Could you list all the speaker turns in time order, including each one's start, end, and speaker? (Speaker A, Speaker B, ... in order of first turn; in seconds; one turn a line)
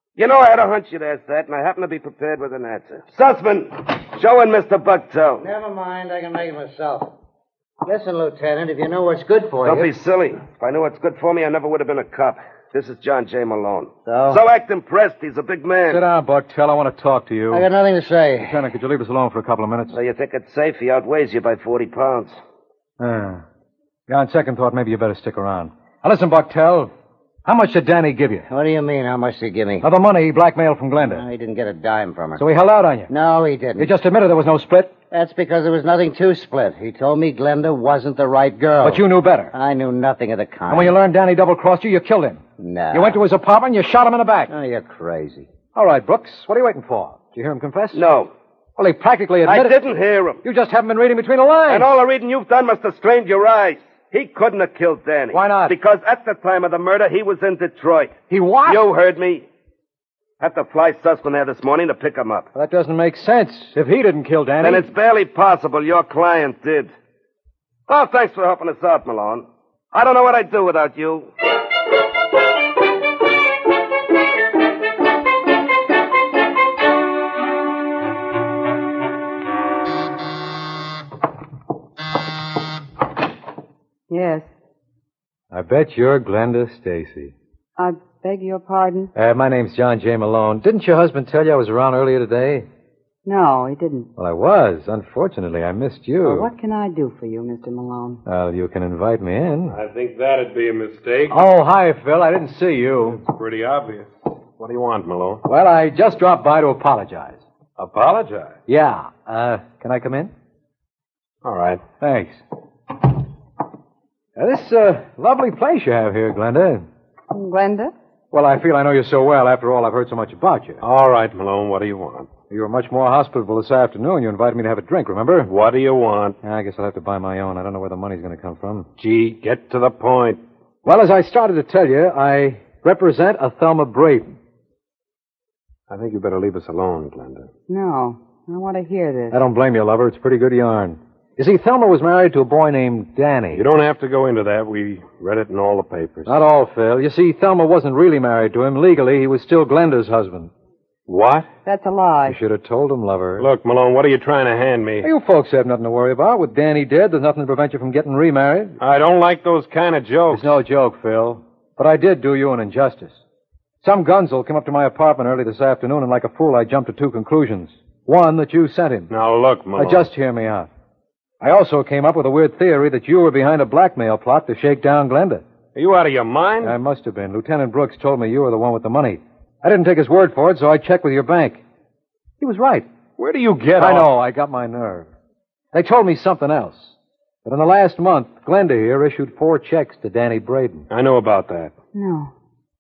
Speaker A: 0.2-5.4
Speaker B: 5.4-7.1
Speaker B: 7.8-9.9
Speaker A: 9.6-16.0
Speaker B: 14.1-14.4
Speaker C: 15.9-17.7
Speaker B: 17.5-18.6
Speaker C: 18.4-19.9
Speaker A: 19.9-22.3
Speaker C: 23.0-23.4
Speaker C: 24.1-26.9
Speaker C: 27.4-28.5
Speaker B: 28.5-29.8
Speaker C: 29.8-31.2
Speaker B: 31.1-32.4
Speaker C: 32.4-33.1
Speaker B: 33.1-33.9
Speaker C: 33.8-34.9
Speaker B: 35.1-40.9
Speaker C: 38.8-39.5
Speaker C: 40.7-44.5
Speaker B: 42.6-43.2
Speaker B: 44.5-45.5
Speaker C: 45.7-48.0
Speaker A: 47.9-48.3
Speaker C: 48.8-49.8
Speaker A: 49.5-50.4
Speaker C: 50.4-51.9
Speaker A: 51.7-59.5
Speaker C: 55.3-55.7
Speaker C: 58.3-58.8
Speaker A: 60.4-62.5
Speaker C: 62.5-64.9
Speaker A: 64.6-66.9
Speaker A: 67.9-71.3
Speaker D: 84.1-84.5
Speaker C: 85.5-87.3
Speaker D: 87.8-89.1
Speaker C: 89.1-92.7
Speaker D: 93.2-94.1
Speaker C: 94.2-96.5
Speaker D: 96.2-98.2
Speaker C: 98.2-99.7
Speaker E: 99.7-101.4
Speaker C: 101.3-103.2
Speaker E: 103.1-105.4
Speaker C: 105.5-107.4
Speaker E: 107.8-108.6
Speaker C: 108.7-110.3
Speaker E: 111.4-111.8
Speaker C: 112.0-112.4
Speaker C: 114.4-116.8
Speaker D: 117.3-117.9
Speaker C: 118.3-120.8
Speaker E: 120.8-122.3
Speaker C: 122.5-125.5
Speaker E: 125.4-126.4
Speaker C: 126.4-128.9
Speaker E: 129.0-130.4
Speaker C: 130.8-134.4
Speaker E: 135.9-137.5
Speaker D: 137.7-139.4
Speaker C: 139.3-143.6
Speaker E: 143.5-146.3
Speaker C: 146.2-150.5
Speaker E: 151.1-151.5
Speaker D: 151.6-152.4
Speaker C: 152.2-153.4
Speaker E: 153.4-155.1
Speaker C: 155.0-158.8
Speaker E: 158.8-160.6
Speaker C: 160.3-163.2
Speaker C: 163.8-169.1
Speaker E: 169.1-170.1
Speaker C: 169.8-170.7
Speaker C: 171.4-175.4
Speaker E: 175.7-176.8
Speaker C: 176.6-181.6
Speaker C: 182.4-182.8
Speaker E: 183.2-184.1
Speaker C: 183.8-185.1
Speaker C: 185.7-186.9
Speaker C: 187.4-190.8
Speaker E: 190.9-191.7
Speaker D: 191.9-192.3